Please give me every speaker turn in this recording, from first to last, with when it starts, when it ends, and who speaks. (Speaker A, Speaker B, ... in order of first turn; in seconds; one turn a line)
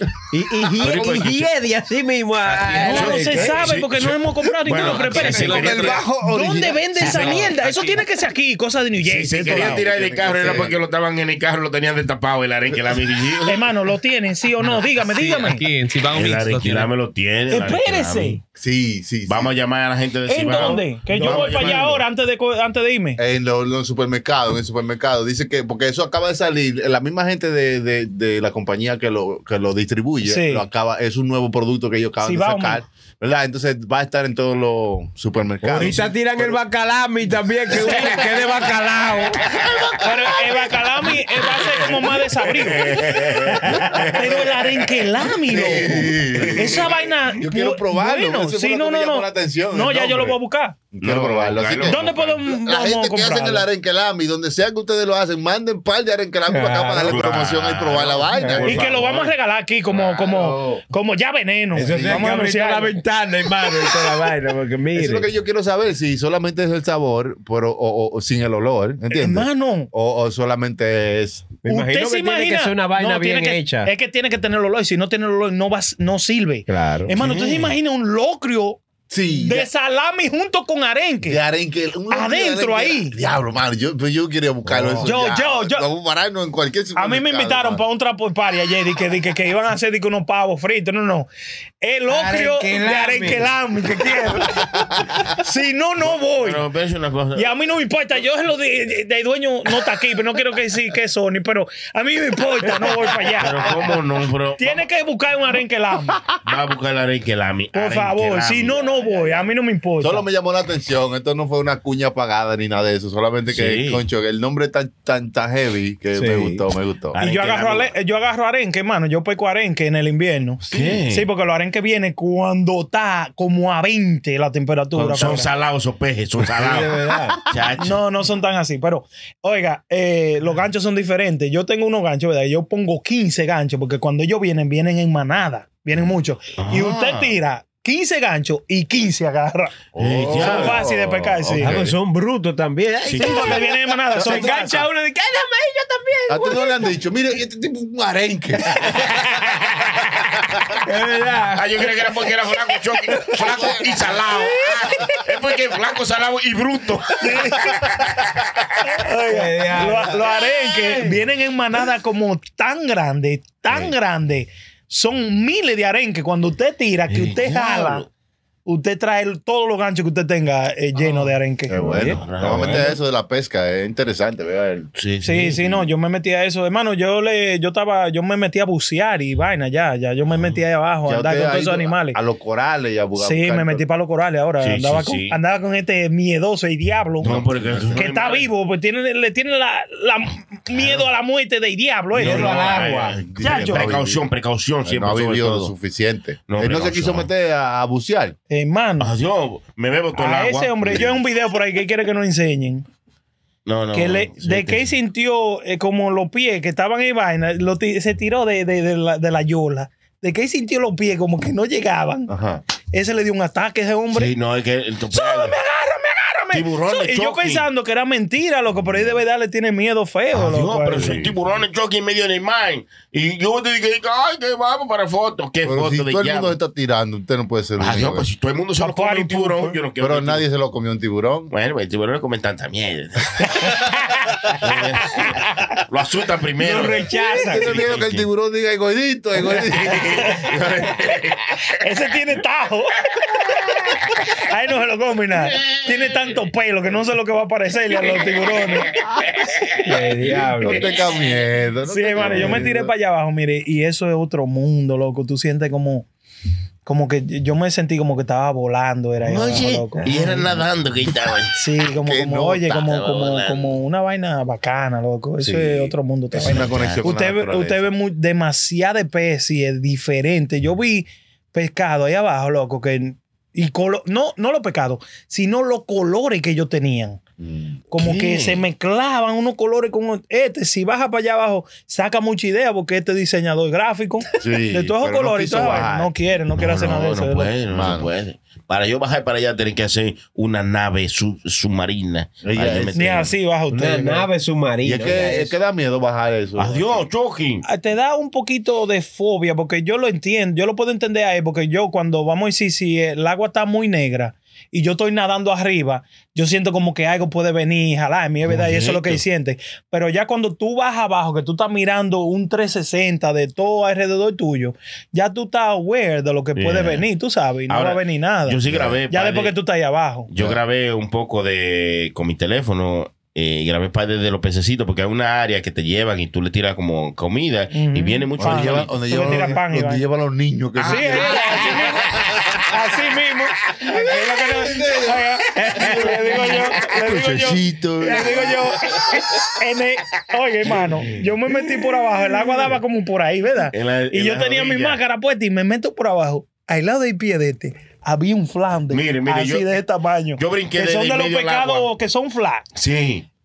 Speaker A: 0.3-3.7
Speaker B: 0.8-1.5
Speaker C: 2.4-3.5
Speaker B: 2.8-6.0
Speaker D: 2.9-9.8
Speaker C: 4.9-6.1
Speaker E: 5.4-7.4
Speaker C: 7.0-8.0
Speaker B: 9.0-13.7
Speaker E: 9.4-10.8
Speaker D: 13.4-15.7
Speaker C: 14.6-16.9
Speaker B: 16.1-18.4
Speaker D: 17.5-18.4
Speaker E: 18.6-19.5
Speaker B: 19.3-21.9
Speaker D: 20.3-23.2
Speaker A: 20.5-22.0
Speaker E: 23.2-36.6
Speaker D: 30.2-30.6
Speaker D: 32.2-32.8
Speaker A: 35.6-39.4
Speaker D: 40.0-43.1
Speaker A: 41.2-41.8
Speaker B: 42.4-44.4
Speaker A: 43.4-44.0
Speaker D: 43.7-50.8
Speaker E: 44.2-44.6
Speaker E: 45.4-50.4
Speaker B: 46.4-46.9
Speaker E: 50.9-59.0
Speaker B: 51.0-52.4
Speaker D: 51.8-53.6
Speaker A: 56.5-57.2
Speaker B: 57.0-59.3
Speaker A: 58.3-58.7
Speaker D: 58.6-63.0
Speaker E: 60.0-60.8
Speaker A: 61.7-65.2
Speaker E: 61.8-62.4
Speaker D: 63.8-64.2
Speaker E: 64.9-71.5
Speaker D: 69.1-69.9
Speaker A: 71.6-73.9
Speaker D: 71.7-78.8
Speaker A: 76.7-77.1
Speaker B: 77.2-77.8
Speaker E: 79.1-79.7
Speaker D: 79.3-81.4
Speaker E: 81.2-87.8
Speaker D: 82.1-83.1
Speaker A: 84.7-85.1
Speaker D: 85.0-85.8
Speaker D: 87.0-91.3
Speaker D: 91.8-96.6
Speaker A: 92.1-93.5
Speaker B: 96.0-97.5
Speaker D: 97.3-104.0
Speaker A: 102.7-103.2
Speaker B: 103.4-104.8
Speaker D: 104.6-106.2
Speaker B: 106.4-108.9
Speaker D: 107.7-110.3
Speaker E: 110.0-117.2
Speaker B: 113.5-114.0
Speaker A: 116.1-116.6
Speaker B: 117.1-117.9
Speaker D: 117.2-125.5
Speaker B: 120.7-121.3
Speaker B: 124.9-128.0
Speaker A: 126.6-127.4
Speaker D: 127.8-141.7
Speaker B: 136.6-137.3
Speaker E: 139.9-141.9
Speaker B: 139.9-140.8
Speaker A: 141.6-146.9
Speaker B: 143.1-143.6
Speaker D: 143.2-144.8
Speaker E: 144.2-144.5
Speaker E: 146.3-149.2
Speaker A: 148.8-149.7
Speaker A: 150.8-151.6
Speaker B: 151.6-158.8
Speaker D: 157.2-157.8
Speaker D: 158.8-168.0
Speaker A: 159.3-160.4
Speaker B: 167.1-168.1
Speaker D: 168.7-171.8
Speaker E: 171.7-174.9
Speaker A: 171.8-172.9
Speaker B: 172.2-172.8
Speaker B: 175.0-175.9
Speaker D: 175.2-182.2
Speaker B: 180.3-180.6
Speaker E: 181.1-183.8
Speaker D: 183.2-187.4
Speaker B: 184.6-185.3
Speaker E: 187.2-188.0
Speaker B: 187.2-188.5
Speaker D: 187.9-192.8
Speaker B: 190.7-191.1
Speaker B: 192.1-195.7
Speaker A: 192.1-193.2
Speaker E: 193.2-194.2
Speaker D: 193.4-193.9
Speaker E: 194.8-198.3
Speaker B: 196.5-197.3
Speaker D: 198.5-199.1
Speaker B: 199.0-201.1
Speaker D: 200.2-202.8
Speaker B: 203.7-204.9
Speaker D: 203.9-212.3
Speaker E: 212.3-212.6
Speaker D: 212.9-214.3
Speaker B: 214.1-215.5
Speaker D: 215.1-221.3
Speaker B: 216.5-217.7
Speaker B: 220.3-226.5
Speaker E: 225.6-228.3
Speaker B: 227.8-230.4
Speaker D: 228.8-229.8
Speaker E: 230.0-231.5
Speaker B: 231.5-233.9
Speaker B: 234.4-238.3
Speaker A: 236.6-237.6
Speaker D: 237.1-237.6
Speaker E: 237.4-240.3
Speaker B: 239.5-241.7
Speaker D: 240.2-240.5
Speaker D: 241.7-243.3
Speaker D: 244.3-248.9
Speaker B: 245.3-246.4
Speaker B: 248.0-249.7
Speaker A: 249.8-250.8
Speaker E: 250.3-252.9
Speaker B: 250.8-251.3
Speaker D: 251.8-256.1
Speaker D: 256.8-260.5
Speaker B: 259.2-261.6
Speaker D: 261.5-277.2
Speaker E: 262.0-262.9
Speaker B: 262.8-263.8
Speaker E: 265.4-267.9
Speaker B: 266.4-267.0
Speaker E: 277.4-277.8
Speaker D: 277.9-287.5
Speaker B: 278.0-278.6
Speaker E: 284.4-286.1
Speaker B: 286.5-293.3
Speaker E: 287.7-288.1
Speaker E: 292.4-293.1
Speaker D: 292.9-294.3
Speaker A: 293.7-295.5
Speaker E: 294.8-297.1
Speaker B: 296.6-297.6
Speaker D: 297.7-320.3
Speaker B: 308.4-309.2
Speaker B: 316.5-317.1
Speaker B: 317.7-319.6
Speaker E: 318.7-319.0
Speaker B: 320.3-329.5
Speaker E: 320.4-320.6
Speaker D: 327.7-330.0
Speaker E: 328.4-331.8
Speaker B: 330.7-332.6
Speaker D: 330.8-352.6
Speaker A: 331.2-331.7
Speaker A: 333.8-334.5
Speaker E: 334.6-335.2
Speaker A: 335.5-336.1
Speaker E: 335.8-336.0
Speaker E: 336.9-338.8
Speaker A: 338.3-338.6
Speaker B: 343.7-345.0
Speaker B: 348.9-349.7
Speaker B: 350.4-351.9
Speaker B: 352.8-353.2